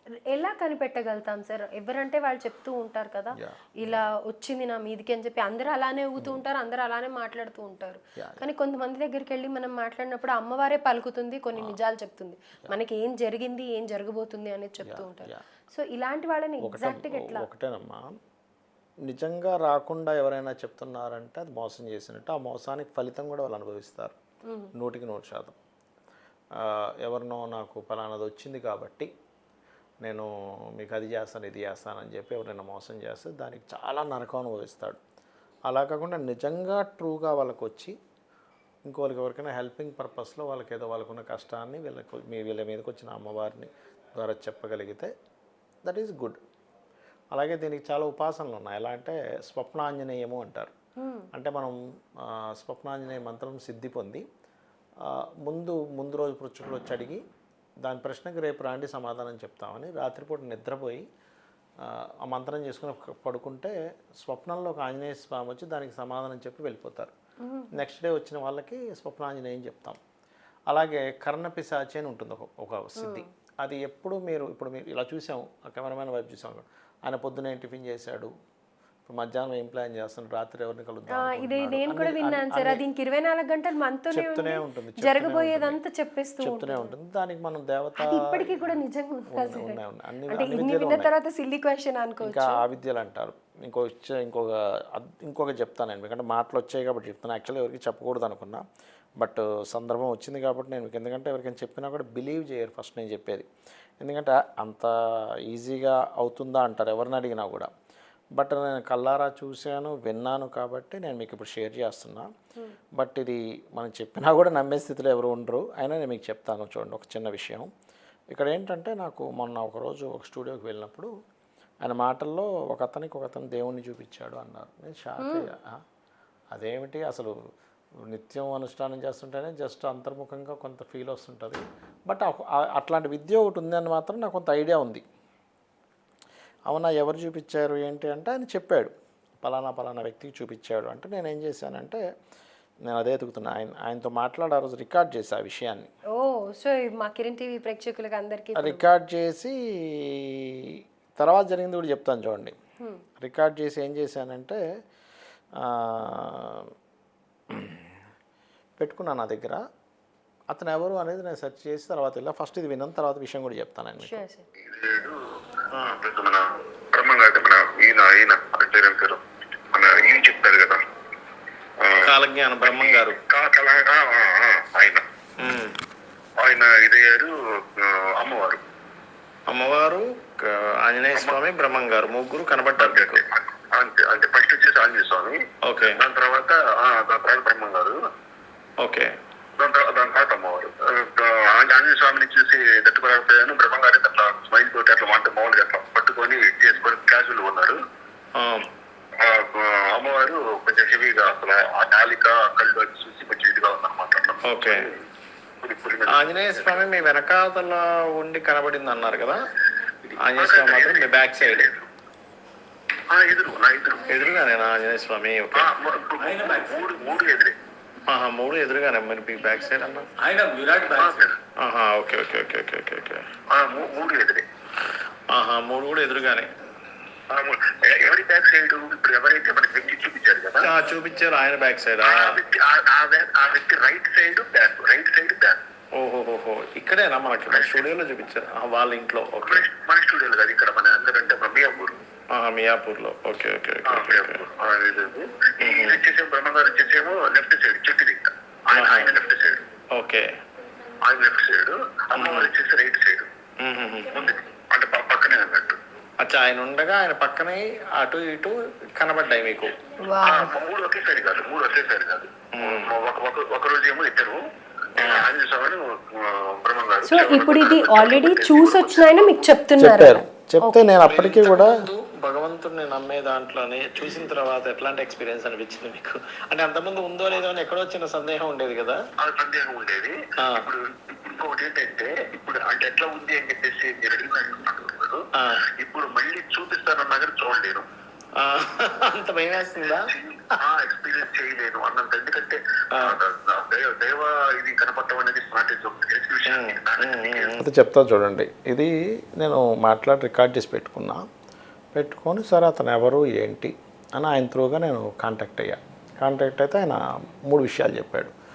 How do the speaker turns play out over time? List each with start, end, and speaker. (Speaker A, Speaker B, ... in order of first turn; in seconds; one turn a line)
Speaker A: 0.3-17.4
Speaker B: 3.4-4.1
Speaker B: 8.2-8.5
Speaker B: 14.8-15.4
Speaker B: 16.6-18.2
Speaker B: 19.0-24.2
Speaker A: 24.4-24.7
Speaker B: 24.7-25.6
Speaker B: 26.5-29.1
Speaker B: 30.0-35.0
Speaker B: 35.7-37.9
Speaker B: 38.9-45.1
Speaker B: 45.8-46.4
Speaker B: 47.3-50.7
Speaker A: 51.0-51.3
Speaker B: 51.3-54.2
Speaker B: 55.0-57.2
Speaker B: 57.8-61.0
Speaker B: 61.8-67.1
Speaker A: 67.4-67.7
Speaker B: 67.7-70.0
Speaker B: 70.7-78.3
Speaker A: 73.0-73.3
Speaker B: 79.0-82.8
Speaker A: 81.1-86.9
Speaker B: 84.1-85.8
Speaker B: 86.4-88.7
Speaker A: 88.0-92.6
Speaker B: 89.3-91.1
Speaker B: 92.2-98.6
Speaker B: 99.2-103.5
Speaker B: 104.0-107.7
Speaker B: 108.3-112.3
Speaker B: 113.0-117.7
Speaker B: 118.3-121.1
Speaker B: 121.8-125.8
Speaker A: 125.2-125.5
Speaker B: 126.5-127.3
Speaker B: 128.1-135.0
Speaker B: 136.7-142.0
Speaker B: 142.9-145.9
Speaker A: 146.1-148.9
Speaker B: 148.6-152.6
Speaker B: 153.2-154.6
Speaker B: 155.6-156.7
Speaker B: 157.5-157.9
Speaker B: 158.8-159.6
Speaker B: 160.5-164.2
Speaker A: 164.0-164.5
Speaker C: 164.6-165.2
Speaker C: 165.8-169.2
Speaker C: 169.7-170.8
Speaker C: 171.8-175.0
Speaker B: 172.0-173.2
Speaker B: 175.4-175.7
Speaker C: 176.4-178.6
Speaker B: 179.5-183.2
Speaker C: 182.8-188.0
Speaker B: 185.7-186.0
Speaker B: 188.8-189.1
Speaker C: 189.6-197.8
Speaker B: 198.4-198.7
Speaker C: 199.2-205.0
Speaker B: 204.4-204.9
Speaker C: 205.6-206.8
Speaker B: 206.1-209.4
Speaker B: 210.2-211.7
Speaker C: 210.2-211.8
Speaker C: 213.1-214.2
Speaker B: 214.1-215.7
Speaker C: 215.5-217.6
Speaker B: 218.1-220.9
Speaker C: 220.8-221.4
Speaker B: 221.6-223.2
Speaker C: 223.5-224.4
Speaker B: 225.3-226.5
Speaker C: 227.3-230.8
Speaker B: 230.6-232.4
Speaker C: 232.0-235.6
Speaker B: 235.9-239.7
Speaker C: 237.5-237.8
Speaker C: 239.4-242.0
Speaker B: 242.3-244.4
Speaker C: 243.8-249.7
Speaker B: 245.6-246.0
Speaker B: 248.7-249.1
Speaker B: 249.9-250.3
Speaker C: 251.0-253.3
Speaker B: 252.2-252.5
Speaker B: 253.6-254.3
Speaker C: 254.1-255.8
Speaker B: 256.2-259.8
Speaker A: 260.0-260.5
Speaker C: 260.2-264.4
Speaker B: 262.6-262.9
Speaker C: 264.9-269.4
Speaker A: 267.0-271.0
Speaker B: 269.8-279.0
Speaker C: 279.2-287.9
Speaker B: 280.4-280.7
Speaker B: 285.4-285.6
Speaker B: 288.4-290.1
Speaker C: 290.0-297.6
Speaker B: 296.5-301.2
Speaker B: 301.9-308.3